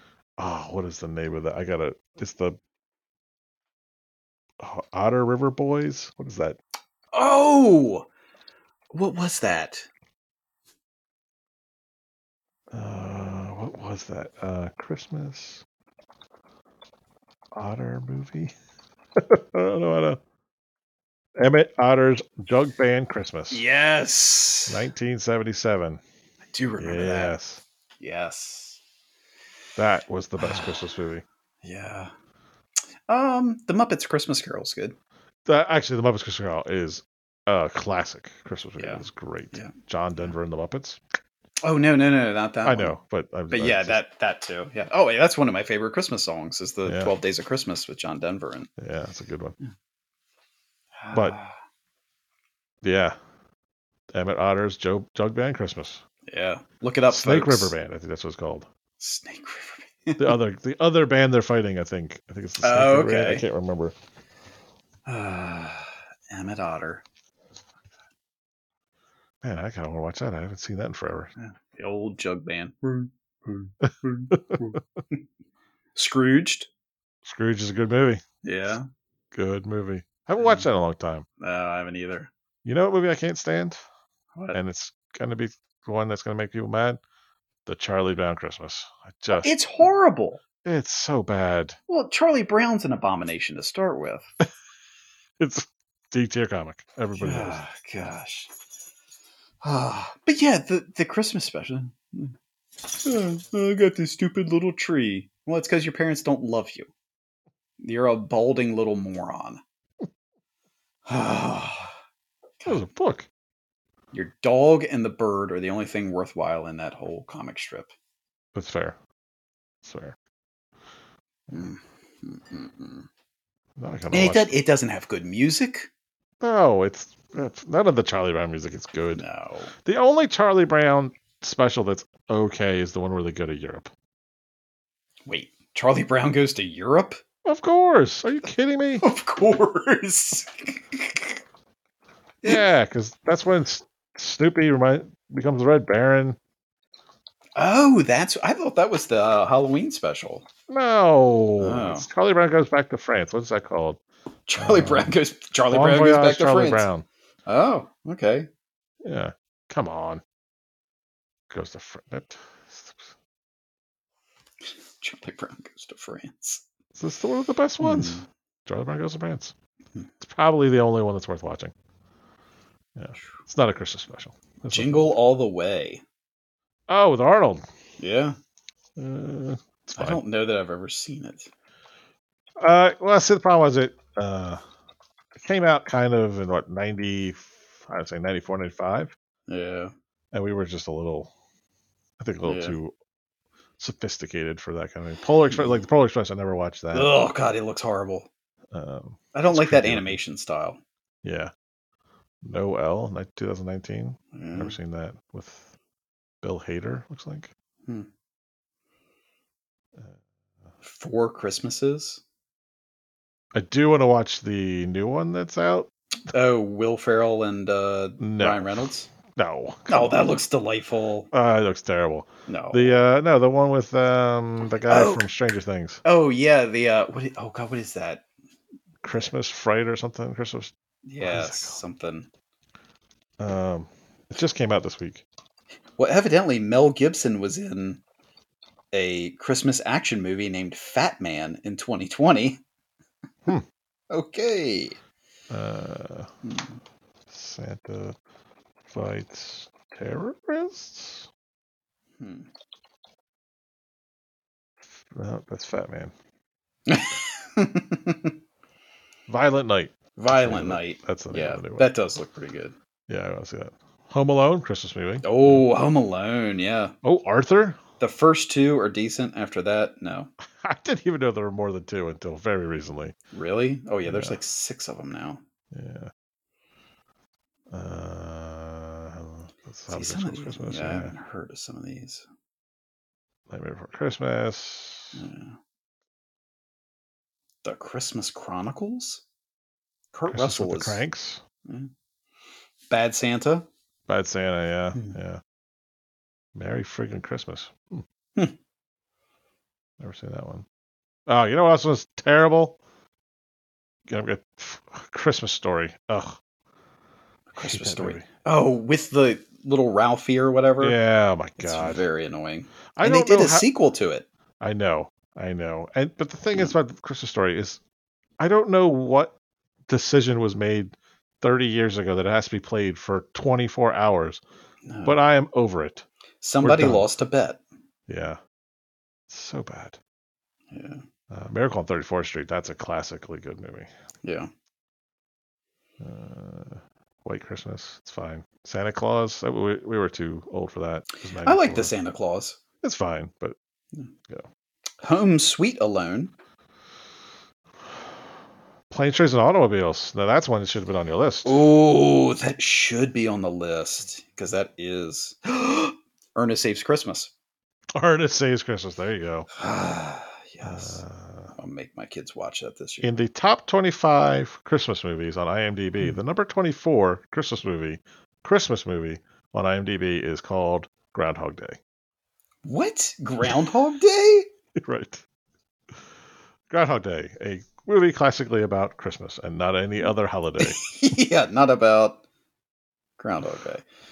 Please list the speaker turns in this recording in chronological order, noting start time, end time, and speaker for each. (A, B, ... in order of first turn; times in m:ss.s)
0:00.4-0:02.6 A
0:04.6-0:06.6 A
0:07.1-0:08.1 B
0:08.9-0:09.9 B
0:12.7-0:15.6 A
0:17.5-0:18.5 A
0:19.2-0:20.2 A
0:21.4-0:23.6 A
0:23.5-0:24.8 B
0:24.7-0:26.0 A
0:26.5-0:27.4 B
0:26.8-0:27.6 A
0:28.0-0:28.8 B
0:29.8-0:31.2 A
0:30.4-0:30.8 B
0:31.6-0:32.1 B
0:33.1-0:35.0 B
0:35.4-0:41.0 A
0:38.8-0:40.3 B
0:41.6-0:42.9 B
0:42.6-0:44.0 A
0:43.5-0:48.7 B
0:46.8-0:47.1 A
0:48.8-0:49.6 A
0:51.0-0:51.6 B
0:52.8-0:53.2 A
0:54.1-0:56.0 A
0:56.3-0:57.7 B
0:57.1-0:58.7 A
0:59.0-1:00.4 B
1:00.2-1:03.9 A
1:02.6-1:03.4 B
1:05.0-1:07.0 B
1:09.4-1:11.3 A
1:11.4-1:15.2 B
1:14.3-1:14.6 A
1:15.9-1:16.7 B
1:17.2-1:18.7 A
1:18.4-1:18.9 B
1:19.3-1:21.2 A
1:20.4-1:20.6 B
1:21.4-1:22.3 B
1:22.6-1:23.8 A
1:24.5-1:27.0 A
1:27.6-1:29.5 A
1:29.3-1:30.4 B
1:30.6-1:31.8 A
1:31.9-1:34.3 B
1:35.4-1:37.6 A
1:37.1-1:38.5 B
1:39.6-1:42.3 B
1:42.9-1:46.9 B
1:47.8-1:49.6 B
1:51.1-1:51.9 B
1:52.6-1:53.3 A
1:54.1-1:57.9 B
1:58.5-1:59.0 A
1:59.8-2:00.2 A
2:01.5-2:03.1 B
2:03.8-2:04.6 A
2:04.1-2:05.9 B
2:06.4-2:09.2 A
2:09.1-2:09.7 B
2:09.8-2:13.9 A
2:15.2-2:17.2 B
2:17.4-2:19.0 A
2:19.0-2:21.4 B
2:22.4-2:26.4 A
2:27.6-2:30.5 B
2:30.7-2:34.0 A
2:31.6-2:32.1 B
2:34.5-2:36.8 B
2:34.6-2:35.1 A
2:35.7-2:37.0 A
2:37.5-2:38.5 B
2:39.0-2:40.2 A
2:41.5-2:43.1 A
2:45.0-2:46.6 B
2:46.9-2:49.5 A
2:47.8-2:48.2 B
2:50.2-2:51.7 A
2:53.0-2:55.1 A
2:54.7-2:56.0 B
2:56.9-2:57.6 A
2:58.0-2:58.4 B
2:59.0-3:00.2 A
2:59.9-3:01.5 B
3:02.6-3:04.6 A
3:05.4-3:09.1 A
3:09.5-3:09.9 B
3:10.3-3:11.3 A
3:12.2-3:12.9 A
3:12.4-3:12.8 B
3:13.8-3:17.1 A
3:15.5-3:15.8 B
3:16.9-3:18.3 B
3:18.7-3:20.2 A
3:19.3-3:20.8 B
3:21.2-3:21.5 A
3:22.4-3:25.7 A
3:24.3-3:24.8 B
3:26.4-3:27.5 A
3:30.8-3:32.2 B
3:33.5-3:35.9 A
3:36.3-3:39.1 B
3:38.2-3:38.7 A
3:39.3-3:40.3 A
3:39.9-3:41.3 B
3:41.3-3:46.0 A
3:42.5-3:43.0 B
3:44.9-3:45.2 B
3:46.0-3:48.2 B
3:49.0-3:51.8 A
3:51.0-3:52.3 B
3:53.4-3:55.2 A
3:56.0-3:58.0 B
3:58.9-4:02.6 B
4:04.1-4:05.0 B
4:05.5-4:06.3 A
4:06.4-4:06.7 B
4:07.3-4:08.2 A
4:08.9-4:11.3 A
4:12.2-4:12.5 B
4:15.0-4:16.1 A
4:16.9-4:18.3 B
4:19.3-4:21.9 A
4:20.2-4:22.8 B
4:23.1-4:25.7 A
4:25.2-4:27.0 B
4:27.0-4:27.8 A
4:28.0-4:30.3 B
4:30.6-4:33.1 A
4:33.3-4:35.4 B
4:34.0-4:34.4 A
4:35.7-4:36.1 A
4:37.7-4:41.1 A
4:39.9-4:42.2 B
4:43.5-4:45.2 A
4:45.1-4:45.6 B
4:47.6-4:49.2 B
4:50.1-4:51.0 B
4:50.3-4:51.4 A
4:51.6-4:51.9 B
4:52.9-4:53.7 B
4:54.1-4:55.4 A
4:56.5-4:58.0 A
5:00.0-5:00.6 A
5:01.3-5:02.8 A
5:04.1-5:06.4 A
5:07.5-5:11.0 B
5:07.6-5:08.2 A
5:10.8-5:12.0 A
5:11.6-5:14.3 B
5:13.0-5:13.6 A
5:14.6-5:17.8 A
5:18.4-5:19.3 A
5:19.9-5:24.4 A
5:24.8-5:25.2 B
5:25.0-5:26.0 A
5:26.4-5:27.6 B
5:26.6-5:27.0 A
5:28.1-5:28.4 A
5:29.3-5:30.0 A
5:30.7-5:31.0 B
5:31.3-5:33.9 A
5:34.2-5:34.5 B
5:36.0-5:41.9 A
5:41.4-5:42.6 B
5:42.8-5:43.6 A
5:45.0-5:46.3 B
5:48.9-5:51.7 A
5:51.4-5:57.3 B
5:57.9-5:59.5 A
5:59.5-6:01.0 B
6:00.6-6:01.5 A
6:01.5-6:03.1 B
6:03.0-6:11.8 A
6:12.6-6:14.5 B
6:14.8-6:15.2 A
6:16.7-6:20.8 A
6:20.6-6:22.2 B
6:23.2-6:23.8 B